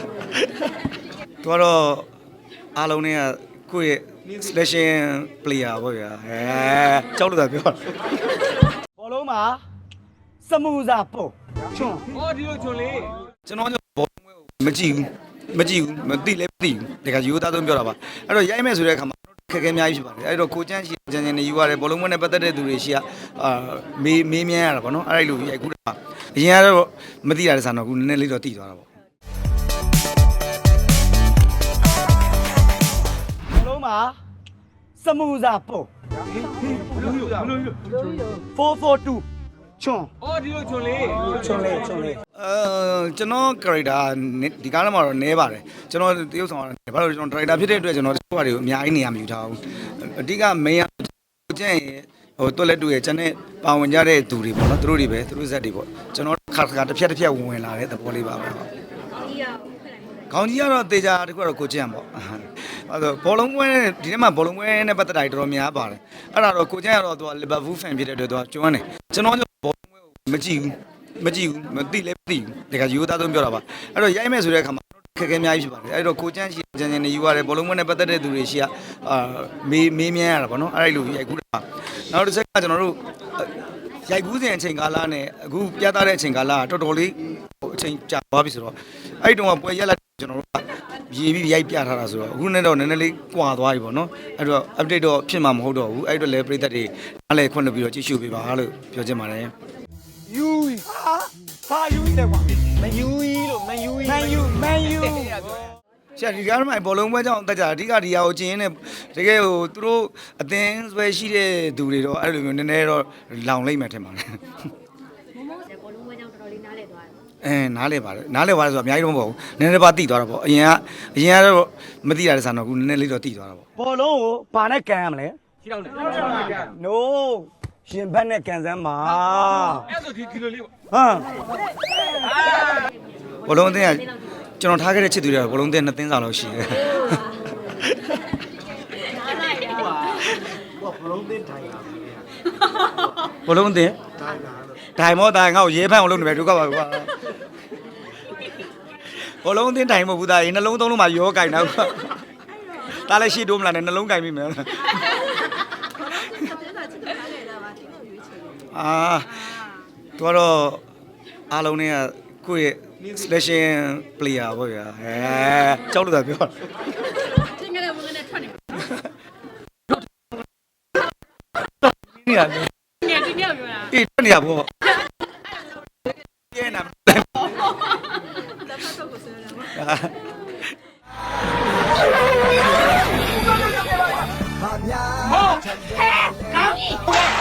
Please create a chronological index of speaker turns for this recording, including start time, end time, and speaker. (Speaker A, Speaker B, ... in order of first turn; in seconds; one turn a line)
Speaker A: 1.4-2.1
Speaker A: 2.8-7.9
Speaker B: 9.0-9.6
Speaker B: 10.4-12.1
Speaker A: 13.4-28.9
Speaker B: 33.5-34.2
Speaker B: 35.0-35.9
Speaker B: 38.5-39.2
Speaker B: 39.8-40.1
Speaker B: 40.9-42.2
Speaker A: 42.3-58.7
Speaker C: 59.4-59.7
Speaker A: 60.3-99.5
Speaker B: 100.3-105.5
Speaker A: 106.2-114.4
Speaker C: 115.5-117.0
Speaker A: 117.4-123.7
Speaker B: 123.8-125.4
Speaker B: 126.2-129.9
Speaker B: 130.9-131.3
Speaker A: 133.4-138.4
Speaker A: 143.3-144.0
Speaker A: 144.9-147.3
Speaker A: 149.2-155.3
Speaker C: 156.7-158.4
Speaker A: 158.7-160.8
Speaker A: 161.5-167.4
Speaker C: 167.6-168.3
Speaker A: 168.7-169.0
Speaker A: 171.6-174.9
Speaker A: 176.1-177.7
Speaker C: 178.9-179.4
Speaker A: 179.5-180.7
Speaker B: 184.6-187.0